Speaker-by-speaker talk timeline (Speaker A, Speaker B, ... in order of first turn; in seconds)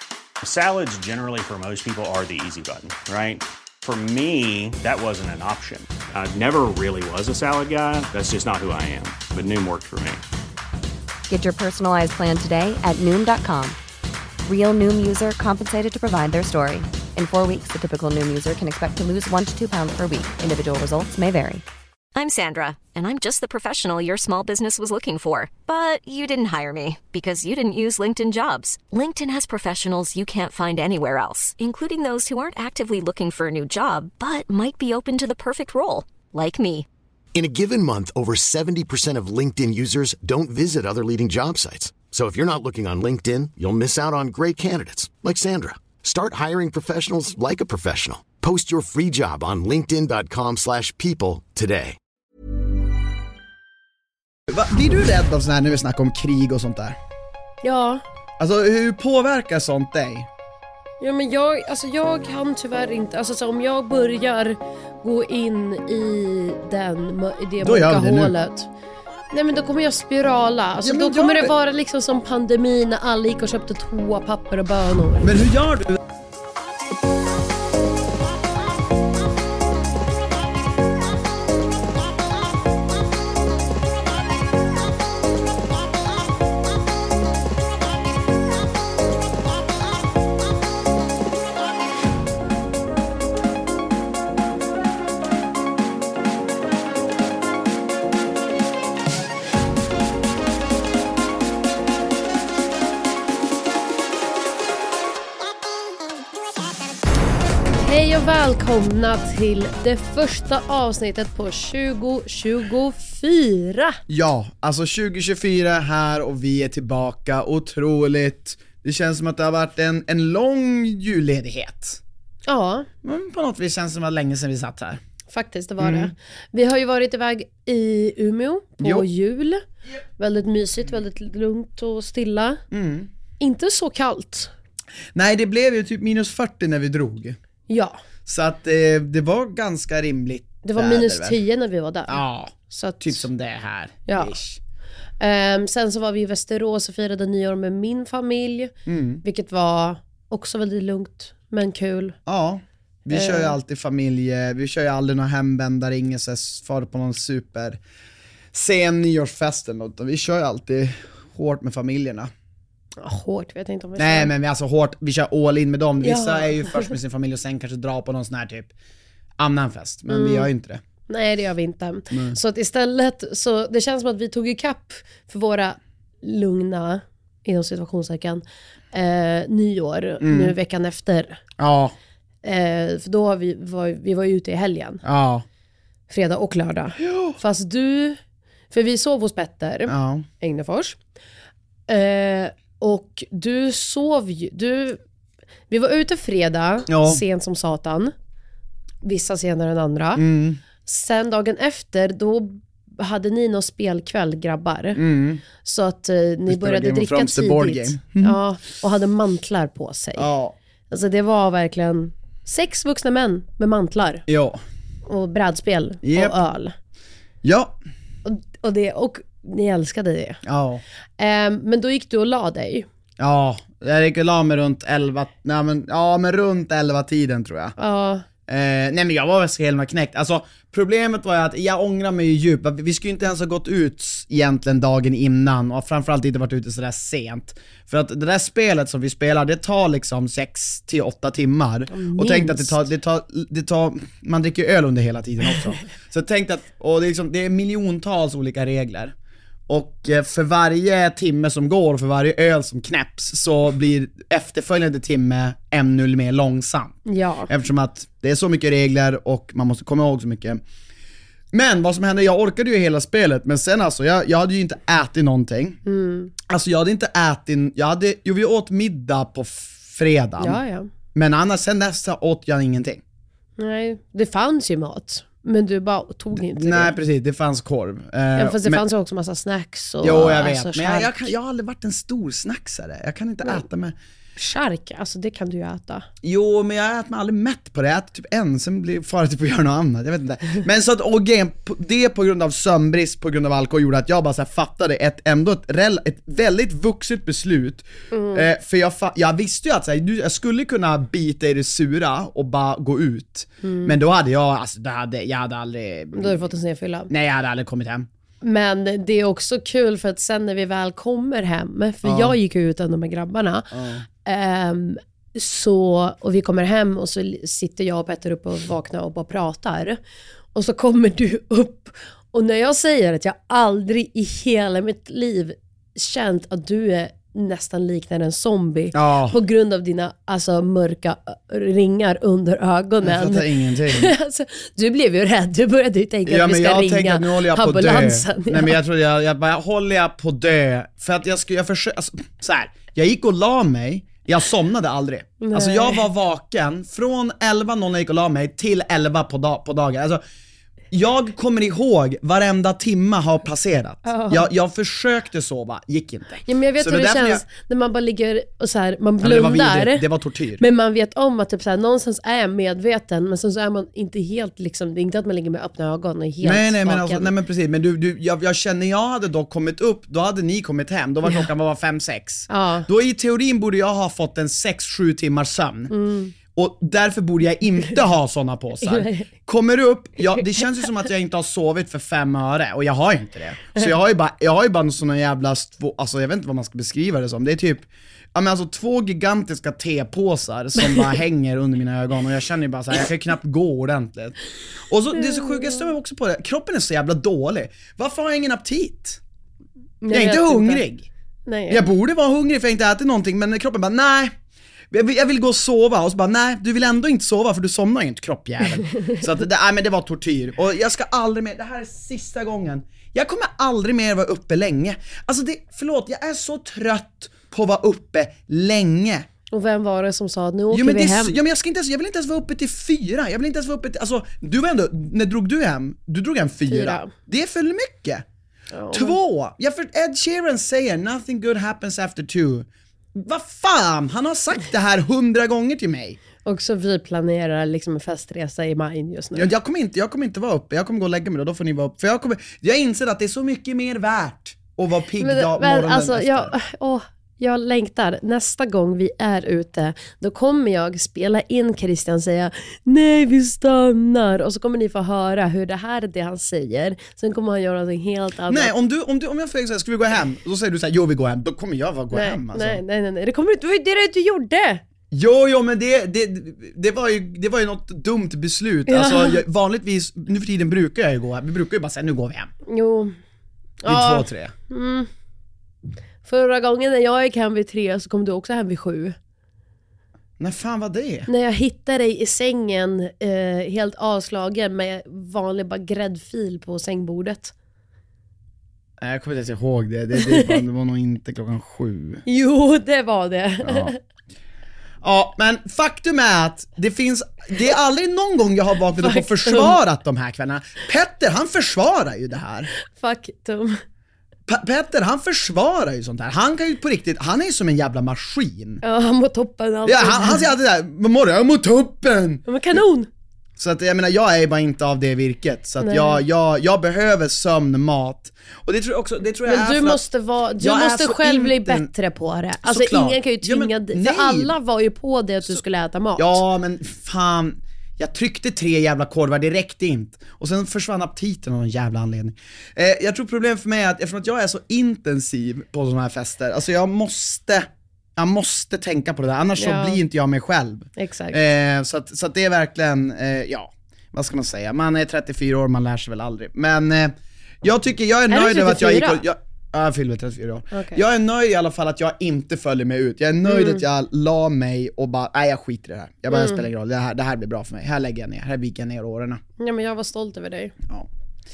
Speaker A: 0.4-10.2
Speaker B: 11.3-13.8, 14.4-21.6
Speaker C: 22.1-36.9
Speaker D: 37.3-52.0
Speaker E: 54.5-57.0, 58.4-60.3, 67.6-68.3, 70.8-71.5, 75.2-76.0, 114.1-122.0, 123.0-125.0, 125.8-126.1, 128.8-129.1, 132.7-133.1, 135.2-137.4, 138.2-141.4, 142.1-144.6, 148.9-149.2, 152.2-157.8, 158.5-162.3, 164.0-168.7, 169.4-170.8, 172.1-172.4, 180.2-180.5, 181.6-181.9, 185.0-185.4, 187.0-187.4, 189.9-190.3, 196.9-197.2, 200.2-200.6, 204.9-205.4, 206.5-208.4, 210.2-210.6, 214.3-214.6, 216.0-216.4, 217.4-217.8, 220.4-220.8, 223.2-227.8, 228.5-249.1, 249.7-260.6, 261.5-265.8, 266.5-270.6, 271.1-273.0, 276.5-278.8, 280.0-283.9, 286.2-306.5, 307.1-308.1, 312.0-312.4, 313.7-314.1, 328.9-329.4, 333.0-334.1, 336.2-350.2, 350.9-357.4, 359.2-360.6, 366.4-375.9, 376.5-394.4, 394.9-399.2, 400.1-401.1, 401.7-404.3, 404.9-419.3, 420.7-428.2, 428.9-436.2, 439.4-446.5, 458.5-462.8, 465.1-472.5, 473.9-474.5, 480.4-481.3, 489.0-492.2, 493.6-493.9, 495.0-502.7, 504.5-508.8, 509.9-512.8, 513.6-520.0, 520.6-521.9, 522.6-524.5, 526.2-559.4
Speaker F: 57.6-58.0, 61.0-68.7, 69.3-75.3, 107.8-114.0, 122.5-122.9, 125.3-129.6, 130.2-132.6, 133.4-134.5, 137.7-138.0, 140.6-143.2, 144.1-144.3, 145.2-148.7, 149.2-152.2, 153.1-153.6, 163.0-164.3, 166.0-166.9, 170.1-170.5, 171.1-181.4, 182.4-185.0, 186.1-188.2, 188.7-191.0, 191.9-195.0, 195.7-198.1, 199.0-200.2, 200.8-205.0, 205.6-210.3, 210.9-214.2, 215.1-216.8, 218.2-220.4, 221.2-222.9, 227.8-228.2, 241.9-242.8, 257.1-257.5, 265.9-266.3, 270.4-270.9, 273.6-276.9, 278.4-281.2, 284.4-286.1, 298.1-298.4, 303.6-303.9, 306.1-307.1, 308.4-313.7, 314.2-320.0, 320.5-338.8, 345.4-346.0, 354.1-354.5, 356.4-360.0, 360.6-367.3, 372.5-372.9, 375.9-376.3, 378.8-379.3, 380.2-380.6, 395.2-395.9, 400.0-400.8, 401.4-401.9, 419.5-421.4, 426.7-427.1, 428.7-429.2, 436.4-439.5, 445.2-458.7, 462.1-464.8, 468.9-469.4, 472.7-473.1, 473.8-475.1, 476.2-479.1, 481.3-487.5, 490.1-490.6, 492.2-494.0, 499.0-499.8, 502.9-503.8, 508.8-510.5, 512.5-513.1, 515.8-516.2, 519.5-526.4, 539.6-540.0, 541.0-541.4, 548.3-549.2, 550.7-551.0, 553.5-553.8, 556.3-556.6, 559.6-560.8